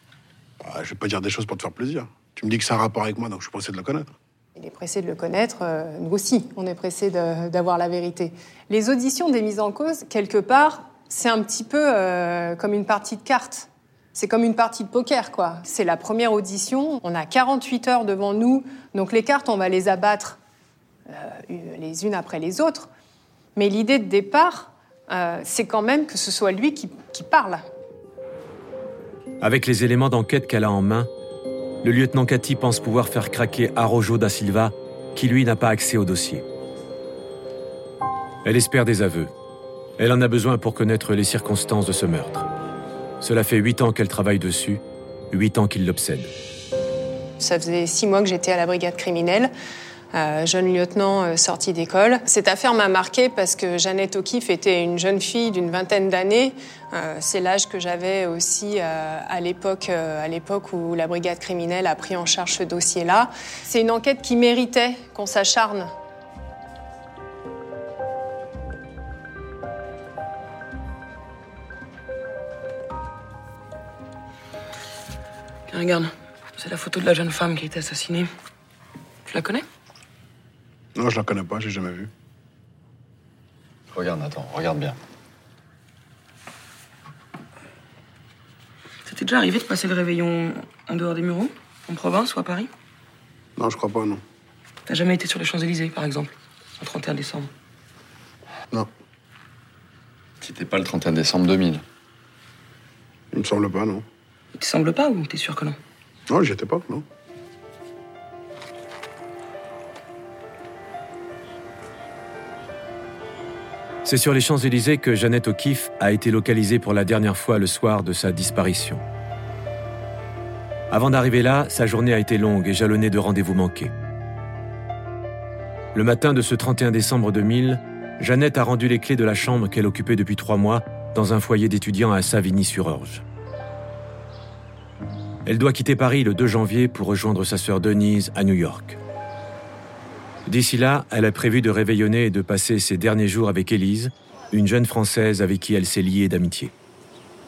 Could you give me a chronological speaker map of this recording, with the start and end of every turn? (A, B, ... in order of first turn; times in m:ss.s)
0:00.6-0:04.1 A
0:04.6-0:20.4 B
0:21.1-0:22.9 B
0:23.6-0:27.7 B
0:29.4-0:31.1 C
0:31.8-0:36.4 C
0:38.4-0:39.3 C
0:40.0-0:42.5 C
0:43.2-0:46.3 C
0:47.4-0:49.5 B
0:50.1-1:05.9 B
1:15.7-1:18.3 D
1:19.3-1:19.6 D
1:21.0-1:22.1 A
1:23.9-1:25.0 E
1:29.1-1:32.7 D
1:33.6-1:34.2 A
1:34.9-1:37.5 D
1:40.4-1:41.8 E
1:43.3-1:44.0 A
1:44.6-1:45.8 D
1:46.3-1:47.0 A
1:54.0-1:59.0 C
2:00.9-2:03.9 C
2:05.9-2:13.2 C
2:15.5-2:19.0 C
2:20.5-2:26.7 C